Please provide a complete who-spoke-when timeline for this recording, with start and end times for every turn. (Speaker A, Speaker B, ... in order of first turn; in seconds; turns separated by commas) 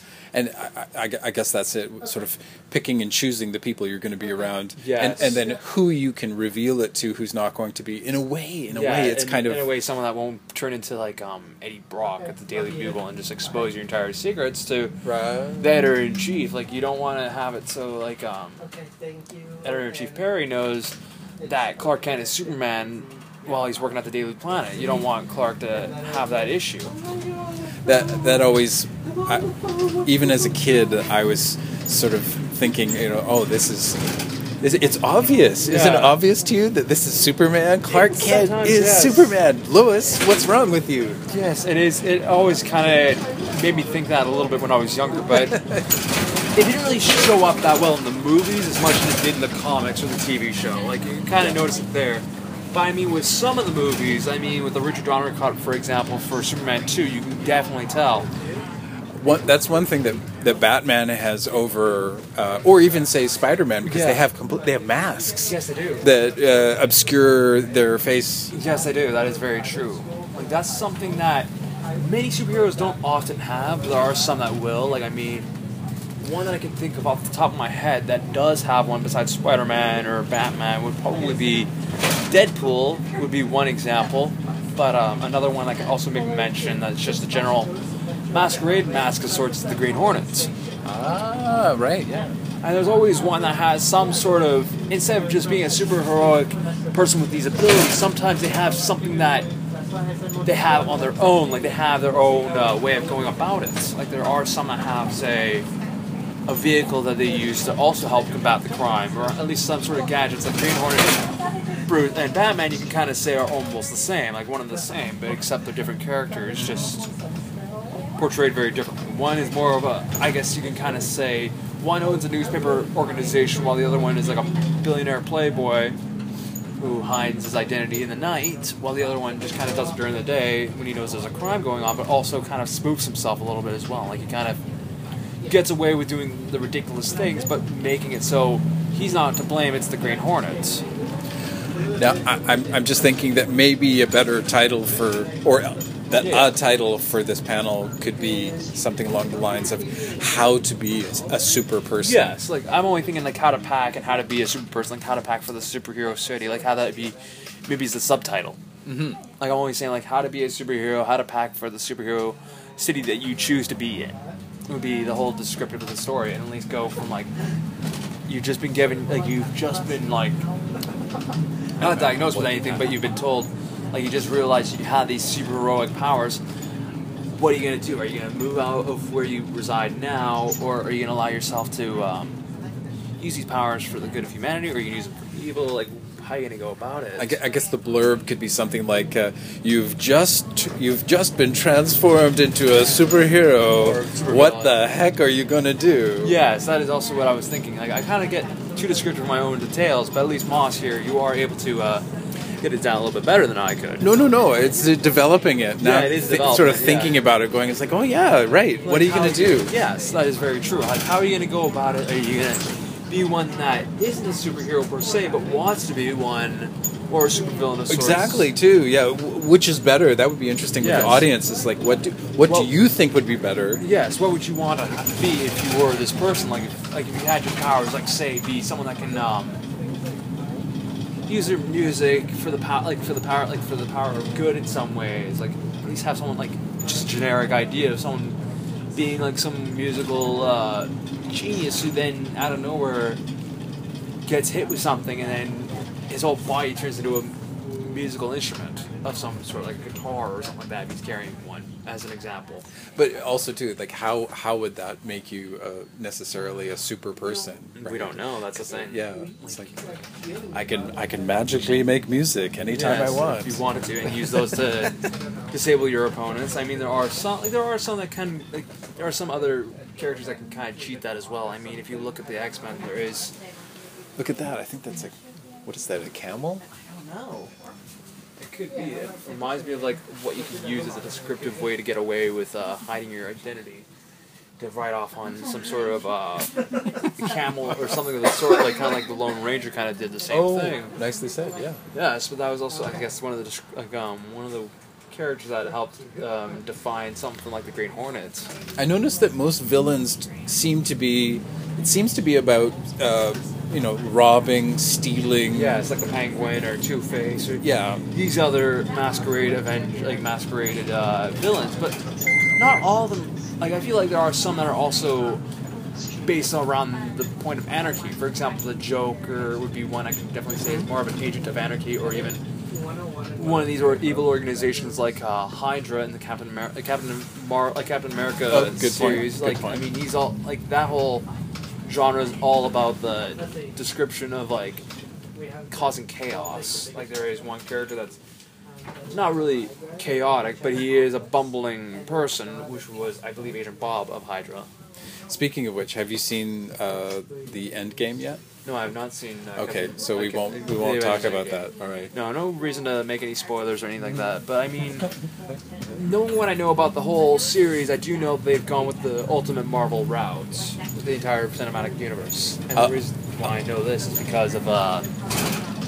Speaker A: 0.3-9.7, Speaker B: 4.8-5.4, Speaker B: 8.7-15.0, Speaker C: 12.3-13.2, Speaker A: 15.0-15.8, Speaker B: 15.6-18.6, Speaker C: 18.6-20.4, Speaker B: 19.6-26.9, Speaker C: 21.4-23.9, Speaker C: 24.8-25.1, Speaker C: 25.7-28.4, Speaker A: 27.8-41.2, Speaker C: 29.0-30.9, Speaker B: 35.6-36.2, Speaker B: 37.9-39.3, Speaker B: 41.3-45.6, Speaker A: 45.3-45.9, Speaker B: 46.4-58.3, Speaker C: 58.3-58.6, Speaker A: 59.1-68.5, Speaker B: 63.8-64.2, Speaker C: 64.4-67.9, Speaker B: 65.3-66.1, Speaker C: 68.5-71.1, Speaker B: 68.5-75.5, Speaker C: 72.3-74.3, Speaker B: 76.2-87.7, Speaker C: 86.5-91.0, Speaker B: 88.3-90.5, Speaker A: 90.8-92.3, Speaker B: 92.6-99.5, Speaker C: 92.8-103.7, Speaker B: 100.4-105.7, Speaker B: 106.5-111.3, Speaker B: 111.8-117.1, Speaker A: 116.5-116.8, Speaker C: 116.6-117.7, Speaker B: 118.1-126.0, Speaker B: 126.8-134.6, Speaker B: 135.4-140.8, Speaker C: 140.4-141.1, Speaker C: 141.7-146.6, Speaker A: 141.8-152.3, Speaker B: 146.1-146.6, Speaker C: 148.1-151.6, Speaker B: 152.0-158.6, Speaker A: 158.8-159.2, Speaker B: 159.4-164.2, Speaker B: 164.7-167.3, Speaker B: 168.2-170.4, Speaker C: 170.1-171.2, Speaker A: 171.8-172.8, Speaker B: 171.8-176.4, Speaker B: 177.3-182.4, Speaker B: 183.2-187.4, Speaker A: 187.2-196.3, Speaker B: 193.8-194.8, Speaker B: 196.2-202.0, Speaker B: 202.6-204.1, Speaker A: 204.0-209.8, Speaker B: 205.8-207.2, Speaker B: 208.8-218.5, Speaker C: 209.6-209.9, Speaker A: 217.9-223.8, Speaker B: 220.8-221.3, Speaker B: 222.4-222.7, Speaker B: 223.8-229.6, Speaker C: 229.6-230.6, Speaker B: 231.3-238.4, Speaker B: 238.9-243.2, Speaker B: 244.2-252.6, Speaker A: 252.9-259.9, Speaker B: 257.7-259.7, Speaker C: 259.6-261.5, Speaker A: 260.5-263.6, Speaker B: 262.7-273.3, Speaker C: 264.7-266.3, Speaker A: 274.2-276.6, Speaker B: 276.9-277.5, Speaker B: 278.4-283.9, Speaker C: 279.1-281.0, Speaker B: 284.6-291.0, Speaker C: 287.0-287.2, Speaker C: 288.4-288.7, Speaker A: 290.3-291.8, Speaker C: 290.4-291.9, Speaker B: 291.9-298.5, Speaker A: 298.8-305.8, Speaker B: 305.5-312.0, Speaker A: 307.6-308.0, Speaker B: 312.6-315.4, Speaker B: 316.2-322.4, Speaker C: 322.7-324.9, Speaker B: 323.4-331.2, Speaker A: 328.5-329.9, Speaker B: 331.8-334.8, Speaker C: 333.3-333.7, Speaker C: 335.3-336.3, Speaker B: 335.7-338.2, Speaker C: 338.7-340.9, Speaker B: 339.1-344.7, Speaker A: 345.3-348.4, Speaker B: 348.6-355.1, Speaker A: 349.6-352.1, Speaker B: 355.9-365.1, Speaker A: 362.7-363.5